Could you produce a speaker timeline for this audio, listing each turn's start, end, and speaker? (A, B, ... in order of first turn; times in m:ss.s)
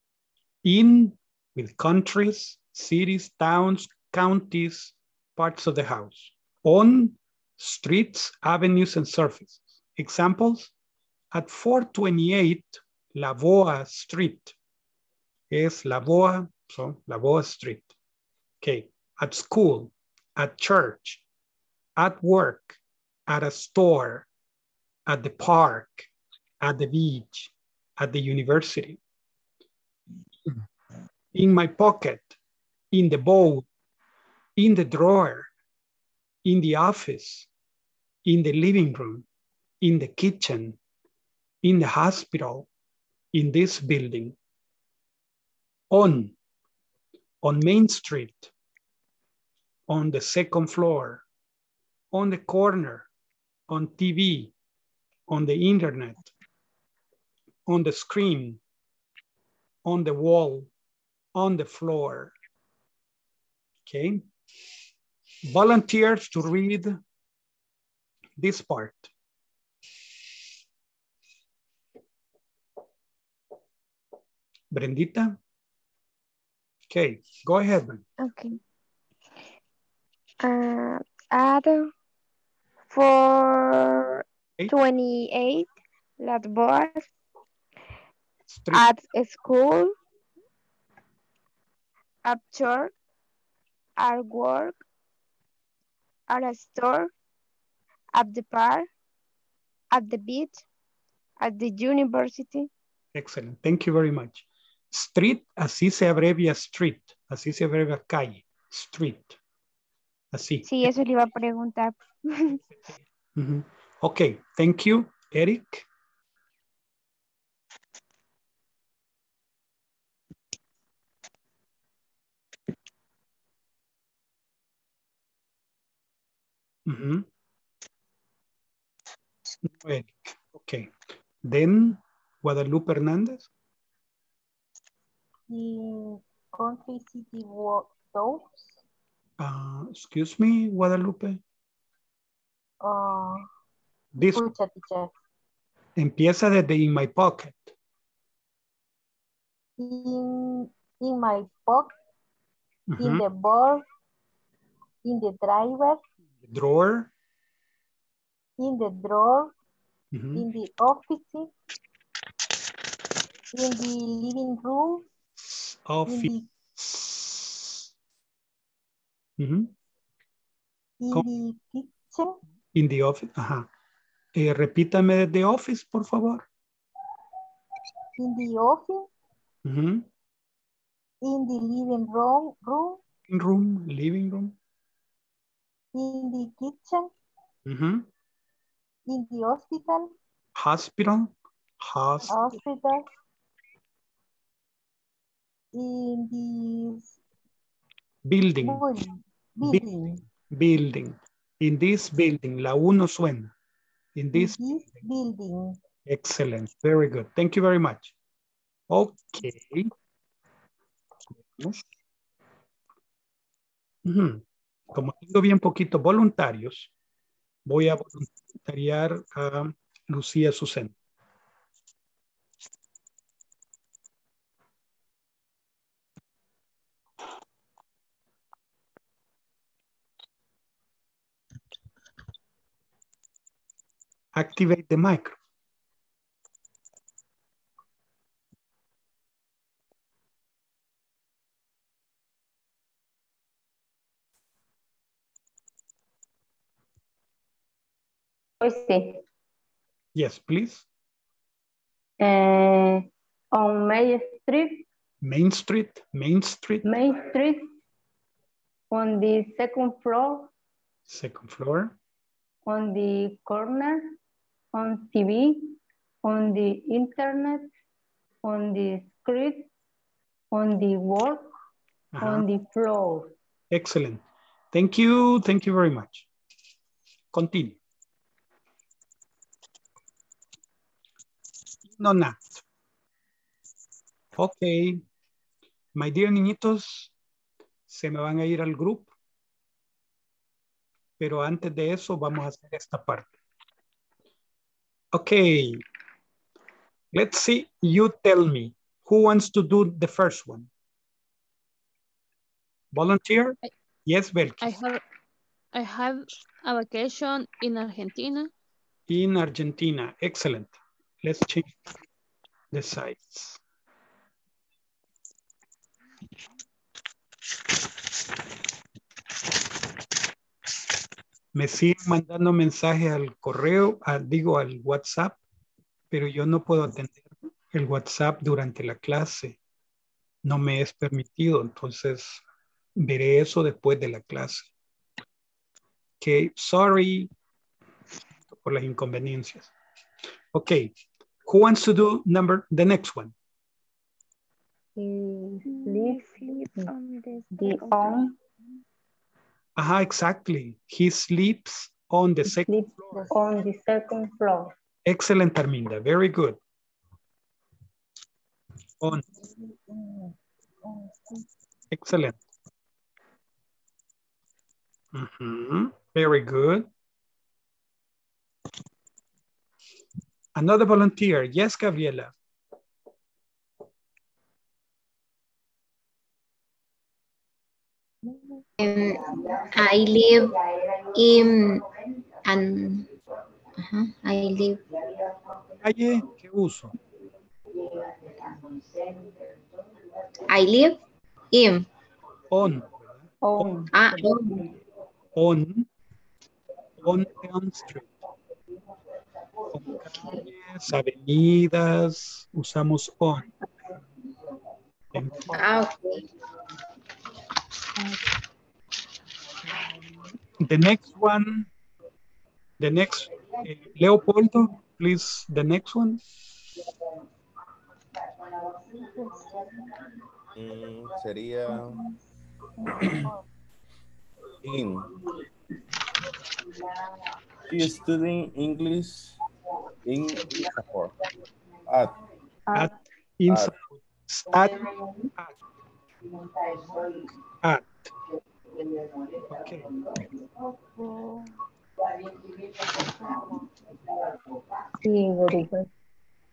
0:00.6-0:10.7 A
0:11.3-0:14.5 A
0:15.5-0:17.9 A
0:18.6-0:21.2 A
0:22.0-0:24.3 A
0:25.1-0:26.1 A
0:26.6-0:29.0 A
0:31.3-0:32.4 A
0:32.9-0:33.7 A
0:34.6-0:35.5 A
0:36.4-0:37.5 A
0:38.2-0:39.2 A
0:39.8-0:40.8 A
0:41.6-0:42.7 A
0:43.3-0:44.4 A
0:45.9-0:46.3 A
0:47.4-0:48.5 A
0:49.9-0:51.2 A
0:52.1-0:53.1 A
0:53.7-0:54.5 A
0:55.3-0:56.3 A
0:57.6-0:58.6 A
0:59.8-1:00.7 A
1:01.3-1:02.3 A
1:03.8-1:04.3 A
1:05.4-1:07.0 A
1:08.4-1:09.1 A
1:14.7-1:15.4 A
1:16.9-1:18.0 A
1:18.2-1:18.6 B
1:20.4-1:21.9 B
1:22.9-1:27.1 B
1:28.5-1:28.9 A
1:28.7-1:29.9 B
1:32.2-1:32.9 B
1:34.0-1:34.8 B
1:36.3-1:37.1 B
1:38.1-1:38.9 B
1:39.9-1:40.6 B
1:41.4-1:42.7 B
1:43.1-1:49.4 A
1:50.3-1:50.7 A
1:50.6-1:52.6 B
1:52.5-1:55.8 A
2:06.8-2:07.3 A
2:09.6-2:13.5 A
2:15.5-2:18.8 C
2:19.4-2:21.4 A
2:22.8-2:23.4 C
2:24.1-2:24.4 A
2:24.2-2:25.1 C
2:26.0-2:27.7 A
2:29.8-2:32.0 C
2:32.9-2:33.2 A
2:33.0-2:33.8 C
2:35.0-2:36.0 C
2:36.4-2:37.1 A
2:38.6-2:39.5 C
2:40.1-2:40.4 A
2:40.3-2:41.5 C
2:43.5-2:45.0 C
2:45.4-2:47.9 A
2:46.0-2:46.4 C
2:49.4-2:49.7 A
2:51.0-2:52.4 C
2:52.7-2:53.7 A
2:54.3-2:56.4 A
2:58.2-2:59.1 C
2:59.6-3:00.1 A
3:01.2-3:03.0 C
3:03.3-3:04.6 A
3:05.9-3:07.1 C
3:07.6-3:08.1 A
3:09.1-3:10.1 C
3:10.6-3:12.4 A
3:12.3-3:13.0 C
3:15.7-3:17.1 C
3:18.2-3:18.8 A
3:18.6-3:20.2 C
3:19.6-3:23.5 A
3:24.1-3:25.0 A
3:24.3-3:25.8 C
3:26.0-3:28.1 A
3:28.9-3:29.9 A
3:31.4-3:31.8 A
3:34.0-3:36.9 A
3:37.6-3:40.9 A
3:54.3-3:55.4 A
4:08.6-4:09.2 D
4:10.1-4:10.8 A
4:12.2-4:14.8 D
4:15.2-4:16.9 A
4:16.8-4:17.7 D
4:18.9-4:20.5 D
4:21.1-4:22.0 A
4:22.6-4:24.1 D
4:24.7-4:27.7 D
4:28.4-4:29.7 D
4:30.5-4:31.5 D
4:32.1-4:32.5 A
4:32.2-4:33.3 D
4:33.7-4:36.3 A
4:37.3-4:37.8 A
4:41.8-4:42.6 A
4:44.4-4:45.0 A
4:45.9-4:47.1 A
4:47.9-4:49.1 A
4:51.2-4:53.3 A
4:55.1-4:55.8 A
4:57.1-5:00.7 A
5:02.9-5:04.7 A
5:04.6-5:05.0 E
5:05.7-5:08.5 E
5:09.1-5:11.9 A
5:12.7-5:13.6 A
5:21.5-5:25.4 A
5:26.1-5:29.6 A
5:30.4-5:32.4 A
5:33.0-5:34.7 A
5:36.2-5:37.3 A
5:38.5-5:39.7 A
5:40.5-5:40.9 A
5:41.4-5:43.3 A
5:45.0-5:46.9 D
5:45.7-5:48.3 B
5:47.6-5:48.3 D
5:49.8-5:53.3 A
5:52.4-5:54.7 D
5:55.0-5:56.6 A
6:01.9-6:02.4 A
6:05.1-6:06.9 A
6:10.5-6:12.3 A
6:18.8-6:20.6 F
6:21.1-6:21.8 F
6:22.4-6:23.1 F
6:23.8-6:24.8 F
6:25.8-6:27.0 A
6:30.5-6:31.0 F
6:31.5-6:31.8 F
6:32.5-6:33.8 A
6:33.4-6:34.4 D
6:33.9-6:34.5 F
6:35.3-6:35.9 A
6:37.0-6:38.2 A
6:39.7-6:43.5 A
6:45.1-6:45.5 A
6:45.5-6:46.2 F
6:50.6-6:51.7 A
6:52.8-6:56.2 A
6:59.2-6:59.7 C
7:00.5-7:02.0 G
7:03.0-7:03.4 C
7:04.6-7:05.1 G
7:07.7-7:09.4 G
7:10.0-7:11.1 G
7:11.9-7:12.1 G
7:12.7-7:15.6 A
7:17.6-7:18.1 A
7:19.5-7:19.9 A
7:25.0-7:25.9 D